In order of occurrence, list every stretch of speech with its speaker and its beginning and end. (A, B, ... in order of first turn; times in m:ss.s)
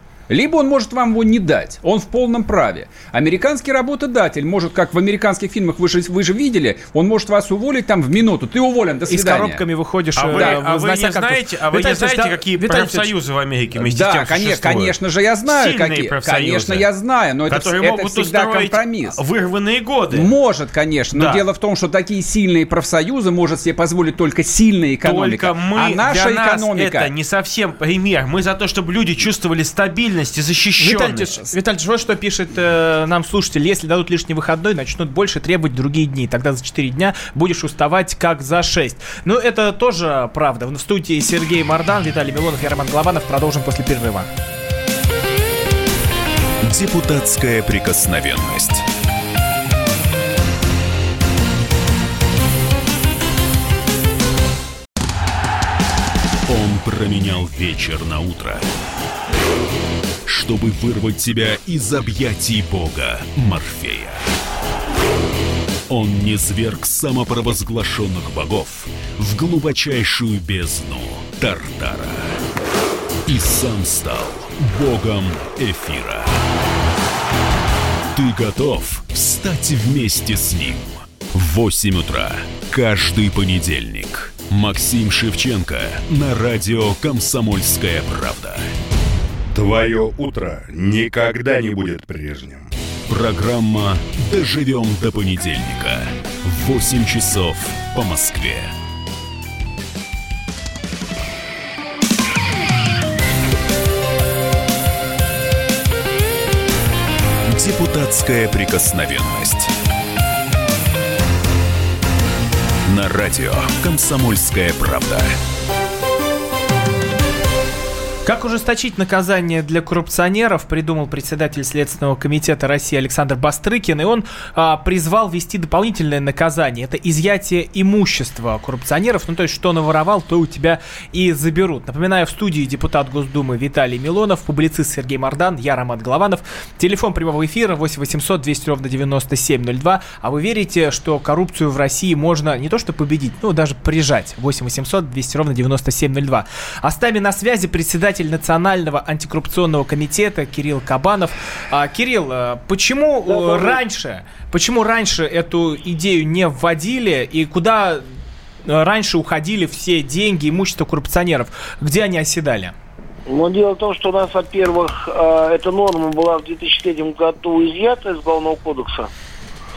0:00.3-0:09.6 A
0:09.1-0:13.1 B
0:10.2-0:14.9 C
0:13.8-0:19.2 A
0:15.4-0:16.8 C
0:17.5-0:20.3 C
0:20.1-0:27.1 A
0:21.1-0:21.4 C
0:25.0-0:31.4 C
0:30.8-0:44.3 B
0:46.6-0:48.8 D
0:56.5-0:58.6 D
1:00.2-1:04.2 D
1:05.9-1:12.4 D
1:13.2-1:16.3 D
1:18.1-1:28.7 D
1:29.5-1:32.6 E
1:33.1-1:38.7 D
1:47.5-1:49.7 D
1:52.9-1:55.4 D
1:58.2-2:38.0 B
2:33.2-2:33.8 F
2:38.6-2:42.7 B
2:43.3-2:49.1 F